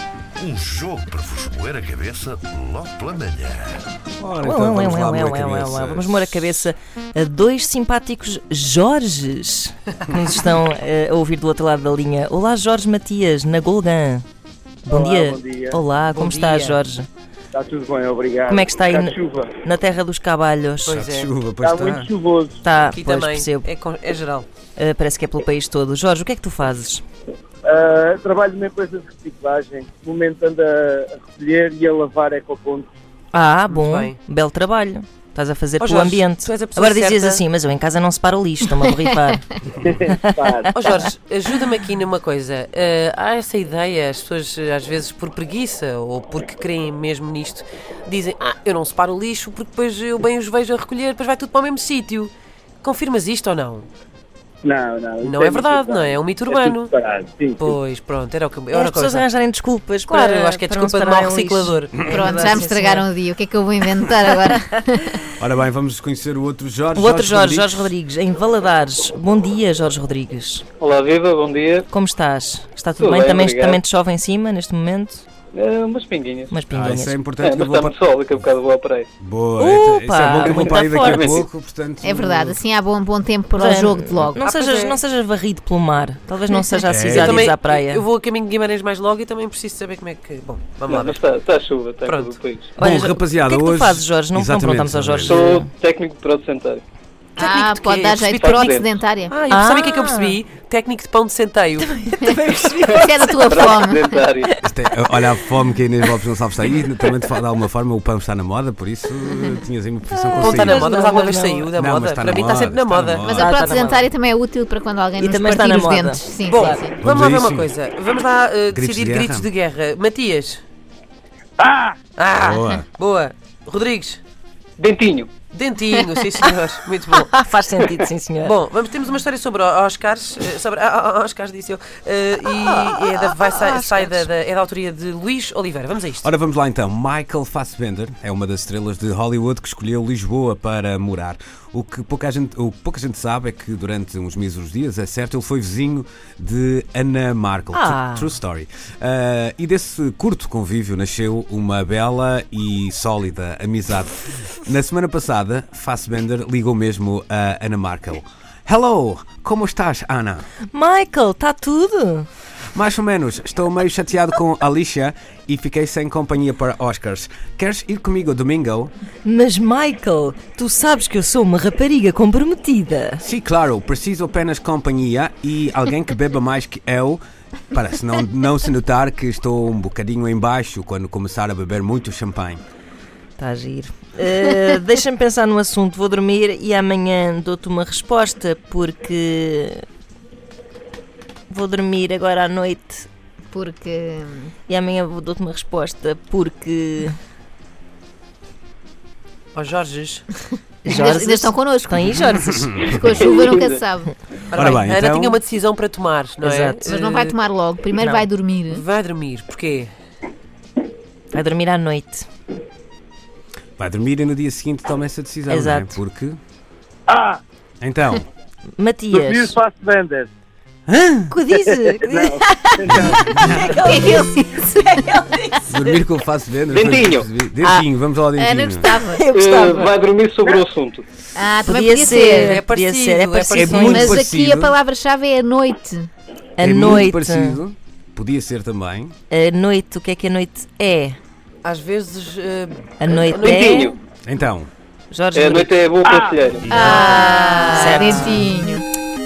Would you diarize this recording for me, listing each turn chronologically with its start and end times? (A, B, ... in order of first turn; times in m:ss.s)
0:00.4-0:03.8 A
0:04.2-0:06.7 B
0:04.4-0:14.2 C
0:14.8-0:15.8 D
0:14.9-0:17.1 C
0:16.1-0:16.8 E
0:17.5-0:19.6 D
0:18.5-0:19.1 C
0:19.6-0:21.0 C
0:20.8-0:21.3 E
0:20.9-0:22.1 B
0:21.6-0:22.6 D
0:22.6-0:23.7 C
0:22.8-0:24.4 E
0:24.8-0:27.0 C
0:27.6-0:32.9 D
0:33.3-0:39.4 C
0:33.7-0:34.2 E
0:35.8-0:37.4 E
0:39.8-0:40.7 D
0:40.7-0:52.3 E
0:52.8-0:53.9 E
0:54.6-0:57.8 D
0:55.2-0:56.9 E
0:57.6-0:59.3 E
0:58.7-1:03.0 C
1:00.1-1:02.8 E
1:02.1-1:05.2 F
1:05.4-1:07.9 B
1:06.9-1:10.6 C
1:10.8-1:11.9 G
1:11.9-1:15.2 C
1:13.0-1:13.8 G
1:15.5-1:16.5 G
1:16.5-1:17.2 C
1:16.7-1:17.9 B
1:17.4-1:19.1 G
1:19.2-1:22.6 B
1:19.6-1:21.4 C
1:20.4-1:21.4 G
1:22.0-1:24.5 F
1:23.6-1:28.0 C
1:24.4-1:25.0 E
1:26.5-1:31.2 E
1:26.9-1:27.5 B
1:30.9-1:32.7 G
1:32.0-1:32.4 E
1:32.8-1:35.7 C
1:32.8-1:35.4 B
1:35.2-1:36.8 G
1:37.4-1:39.4 F
1:37.4-1:38.6 E
1:38.4-1:38.9 G
1:39.3-1:41.9 E
1:39.5-1:40.4 C
1:41.8-1:43.5 C
1:42.2-1:44.1 F
1:42.8-1:44.5 G
1:44.6-1:50.9 B
1:50.2-1:51.7 C
1:50.4-1:53.9 E
1:51.8-1:53.5 B
1:53.2-1:57.0 F
1:53.4-1:54.0 C
1:55.2-1:56.2 C
1:56.5-2:00.6 E
1:57.0-1:57.7 B
1:58.7-1:59.5 B
2:01.6-2:02.0 D
2:02.2-2:04.2 E
2:02.3-2:02.9 B
2:04.8-2:05.3 G
2:05.5-2:16.3 E
2:07.2-2:08.5 C
2:12.6-2:14.3 C
2:16.2-2:40.4 B
2:27.7-2:28.3 C
2:40.7-2:42.3 C
2:42.7-2:48.9 B
2:49.2-2:53.2 C
2:53.2-3:02.6 B
3:03.4-3:09.8 C
3:11.5-3:13.1 C
3:13.5-3:14.5 F
3:14.7-3:17.2 C
3:19.5-3:20.2 E
3:20.8-3:22.8 C
3:20.9-3:22.0 F
3:22.6-3:23.0 B
3:22.8-3:23.8 G
3:22.8-3:24.1 F
3:24.5-3:27.3 E
3:24.5-3:25.4 B
3:26.4-3:26.8 C
3:26.8-3:28.8 F
3:28.0-3:28.3 C
3:28.7-3:29.9 E
3:31.3-3:32.2 C
3:33.8-3:36.4 B
3:35.5-3:36.0 C
3:37.1-3:37.4 D
3:37.8-3:38.2 B
3:38.8-3:39.5 C
3:39.1-3:40.3 D
3:40.9-3:41.4 B
3:41.3-3:46.0 C
3:41.5-3:43.6 D
3:42.9-3:43.7 B
3:43.7-3:45.1 F
3:45.7-3:48.9 B
3:46.7-3:47.3 G
3:48.4-3:49.2 F
3:49.1-3:49.9 C
3:49.3-3:51.0 G
3:51.3-3:52.6 F
3:51.6-3:53.9 C
3:52.0-3:54.1 E
3:53.5-3:54.7 B
3:53.8-3:56.1 F
3:56.6-3:57.6 C
3:56.6-3:59.1 B
3:59.3-4:01.2 C
4:01.6-4:03.9 E
4:03.0-4:03.9 C
4:03.4-4:04.0 G
4:04.2-4:04.7 B
4:05.1-4:05.7 C
4:05.3-4:06.8 G
4:06.0-4:06.4 D
4:06.6-4:07.4 B
4:06.7-4:08.8 F
4:06.9-4:08.5 C